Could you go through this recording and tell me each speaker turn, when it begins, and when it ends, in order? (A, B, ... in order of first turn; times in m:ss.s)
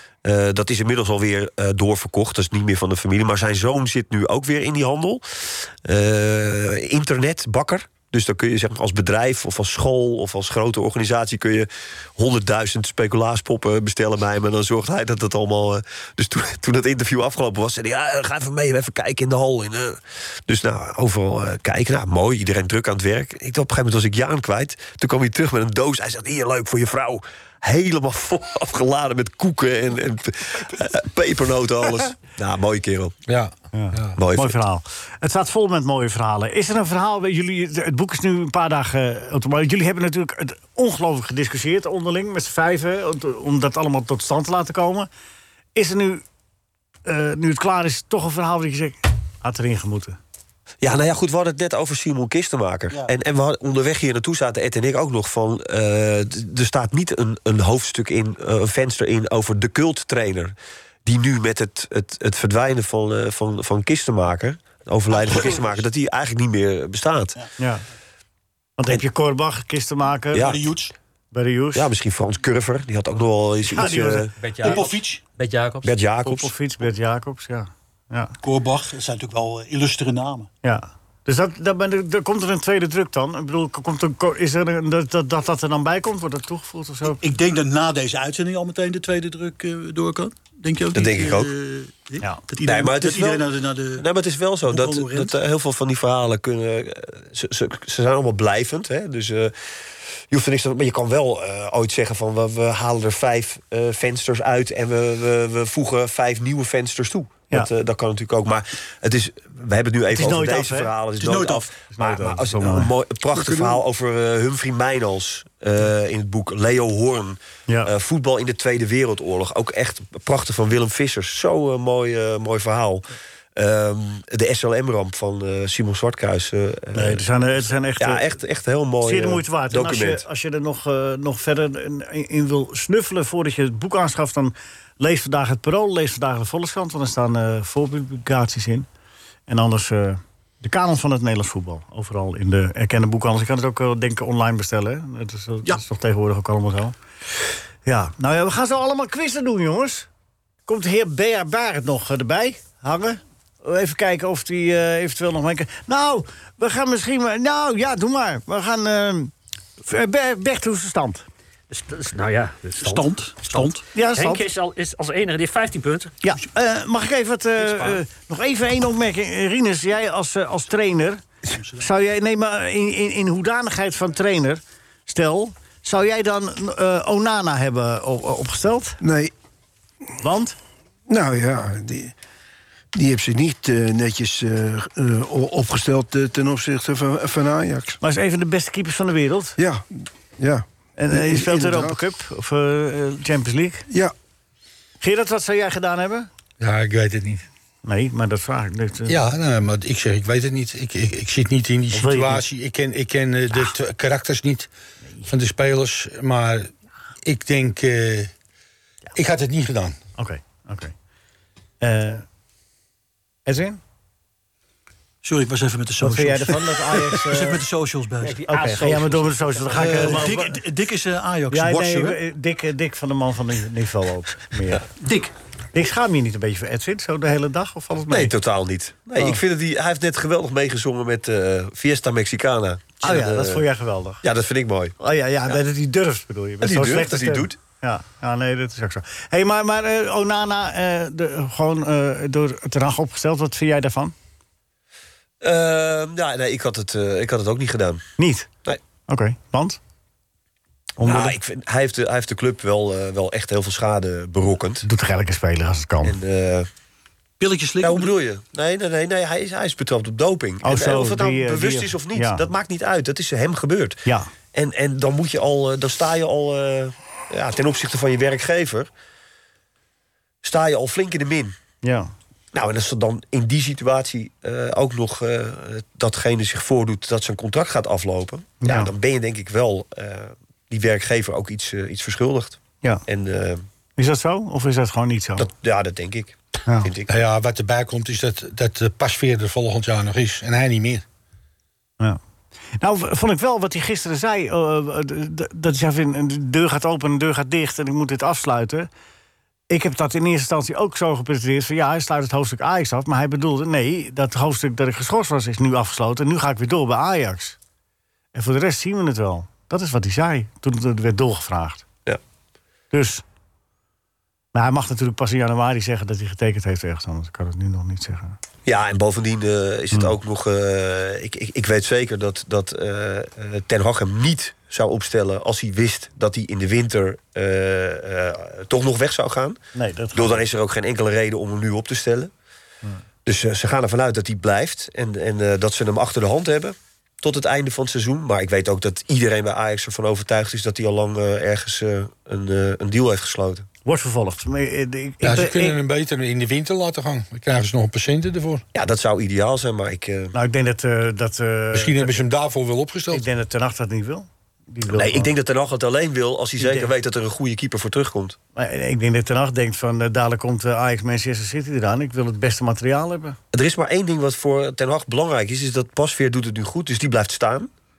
0:00.2-0:33.1 A
0:33.3-0:34.2 B
0:33.7-0:45.1 C
0:34.2-0:34.6 A
0:45.7-0:46.2 C
0:47.0-0:50.2 C
0:50.8-1:07.4 A
1:05.1-1:05.8 D
1:07.6-1:07.8 C
1:08.8-1:10.5 C
1:10.3-1:10.7 A
1:10.4-1:10.9 D
1:11.3-1:11.9 C
1:11.7-1:14.7 A
1:13.7-1:14.3 C
1:14.4-1:15.9 E
1:14.6-1:15.2 D
1:15.8-1:16.5 A
1:16.2-1:18.3 C
1:18.4-1:20.5 D
1:20.6-1:27.2 C
1:27.0-1:34.0 D
1:30.9-1:31.5 A
1:32.6-1:39.5 A
1:34.6-1:35.3 D
1:40.3-2:07.2 A
1:50.1-1:50.9 C
1:51.2-1:51.8 D
1:51.9-1:52.9 C
1:53.3-1:53.8 F
2:06.9-2:08.2 C
2:08.0-2:10.2 A
2:09.0-2:18.9 C
2:19.5-2:27.0 C
2:27.8-2:30.1 C
2:30.7-2:41.2 C
2:41.7-2:46.1 E
2:42.8-2:43.8 D
2:43.9-2:44.4 C
2:46.2-2:51.2 C
2:47.7-2:47.9 D
2:51.8-2:59.0 C
2:59.0-2:59.3 F
3:00.2-3:00.6 C
3:01.1-3:02.1 F
3:02.9-3:08.0 F
3:08.0-3:09.6 C
3:09.6-3:09.9 F
3:10.4-3:12.0 F
3:11.0-3:13.9 C
3:15.0-3:16.3 C
3:16.6-3:17.4 B
3:17.8-3:19.2 C
3:19.1-3:24.7 B
3:21.9-3:22.4 C
3:25.3-3:26.7 B
3:27.2-3:28.3 B
3:29.1-3:30.0 B
3:30.2-3:30.9 C
3:31.8-3:32.2 C
3:33.4-3:33.8 C
3:35.2-3:38.4 D
3:36.0-3:37.6 C
3:38.2-3:40.3 E
3:38.5-3:40.6 C
3:39.7-3:42.2 D
3:41.5-3:44.8 C
3:45.0-3:45.3 D
3:45.7-3:48.3 C
3:48.1-3:53.6 A
3:53.0-3:54.2 C
3:54.2-3:54.9 A
3:55.0-4:04.1 C
3:56.6-3:57.6 A
4:05.4-4:08.0 A
4:08.2-4:08.5 C
4:09.1-4:09.8 C
4:11.0-4:11.3 C
4:11.0-4:14.8 A
4:14.8-4:16.1 C
4:16.0-4:16.7 A
4:17.4-4:18.1 D
4:17.8-4:24.0 A
4:20.6-4:22.5 C
4:24.5-4:28.9 A
4:30.4-4:31.6 A
4:31.8-4:32.1 C
4:32.5-4:43.6 A
4:38.6-4:38.9 C
4:44.0-4:45.5 C
4:45.4-4:47.1 A
4:46.6-4:46.9 C
4:47.1-4:51.0 B
4:52.8-4:58.9 C
4:59.7-5:07.6 C
5:08.3-5:11.8 C
5:12.9-5:13.2 C
5:14.5-5:18.4 C
5:18.6-5:29.6 A
5:29.7-5:30.4 C
5:30.1-5:32.3 A
5:33.2-5:43.7 A
5:43.8-5:45.8 C
5:45.2-5:48.6 B
5:48.7-5:50.3 A
5:50.3-5:52.2 C
5:51.7-5:53.2 B
5:53.1-5:55.3 C
5:54.9-5:58.4 A
5:56.6-5:56.9 C
5:58.5-6:03.4 C
6:03.5-6:07.7 A